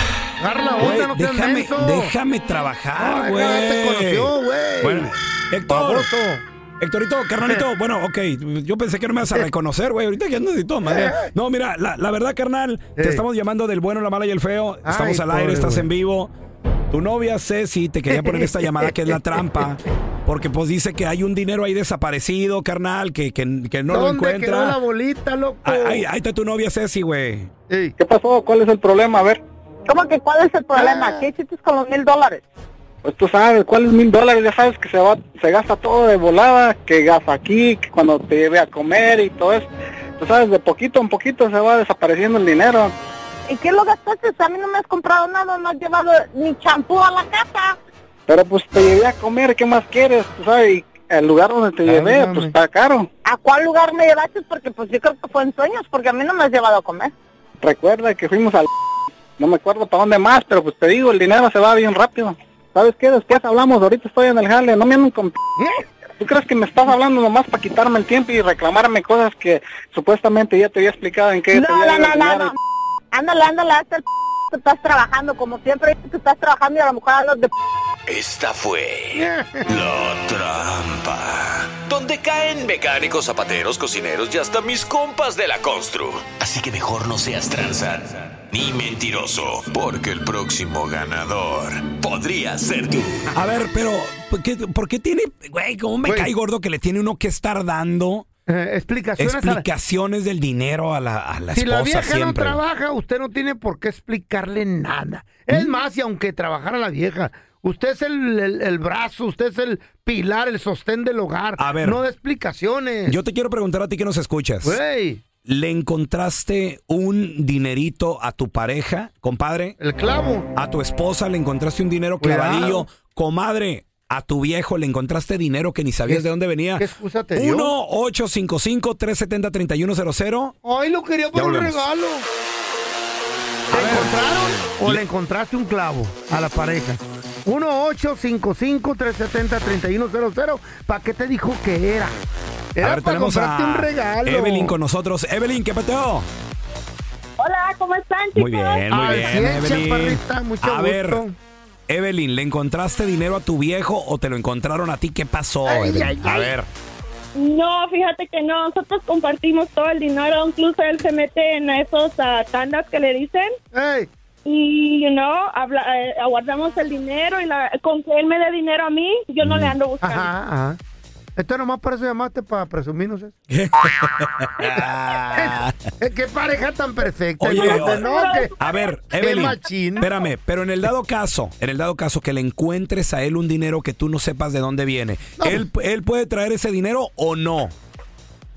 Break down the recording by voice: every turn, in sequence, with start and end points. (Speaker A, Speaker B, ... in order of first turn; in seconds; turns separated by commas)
Speaker A: 0.4-2.1, Speaker B: 0.8-6.1, Speaker A: 3.0-5.1, Speaker A: 5.7-6.4, Speaker B: 6.8-16.3, Speaker A: 10.8-11.3, Speaker A: 13.0-13.2, Speaker A: 14.8-15.9, Speaker B: 16.9-24.8, Speaker A: 18.1-19.7, Speaker A: 23.9-26.1, Speaker B: 25.6-27.5, Speaker C: 28.0-29.4, Speaker D: 29.9-32.5, Speaker A: 30.8-31.2, Speaker C: 33.0-42.9, Speaker D: 43.5-47.8, Speaker C: 48.3-53.1, Speaker A: 51.9-52.5, Speaker D: 53.2-57.1, Speaker C: 57.6-58.7, Speaker C: 59.4-65.3, Speaker C: 66.2-72.5, Speaker D: 71.5-72.6, Speaker D: 73.1-77.5, Speaker E: 78.1-93.3, Speaker A: 79.1-79.7, Speaker B: 93.3-98.3, Speaker A: 96.0-96.3, Speaker A: 98.5-99.7, Speaker B: 99.2-102.6, Speaker A: 101.5-113.2, Speaker B: 111.6-112.0, Speaker B: 113.1-114.8, Speaker A: 114.6-115.2, Speaker B: 115.5-119.8, Speaker A: 119.8-120.5, Speaker B: 120.5-130.5, Speaker A: 122.2-122.9, Speaker A: 126.8-127.7, Speaker A: 130.6-132.3, Speaker B: 131.3-131.9, Speaker B: 133.7-134.1, Speaker A: 133.7-142.2, Speaker A: 142.8-144.7, Speaker B: 142.8-146.3, Speaker F: 147.4-149.1, Speaker B: 148.3-151.2, Speaker A: 148.9-151.3, Speaker B: 151.9-156.7, Speaker A: 155.7-156.6, Speaker F: 157.3-163.6, Speaker A: 163.7-164.1, Speaker F: 164.4-170.3, Speaker B: 169.4-169.7, Speaker A: 170.0-170.8, Speaker A: 171.4-173.3, Speaker B: 173.5-175.8, Speaker A: 174.6-178.5, Speaker B: 177.4-178.1, Speaker F: 177.6-179.0, Speaker B: 178.6-187.7, Speaker A: 179.1-180.1, Speaker A: 185.4-185.7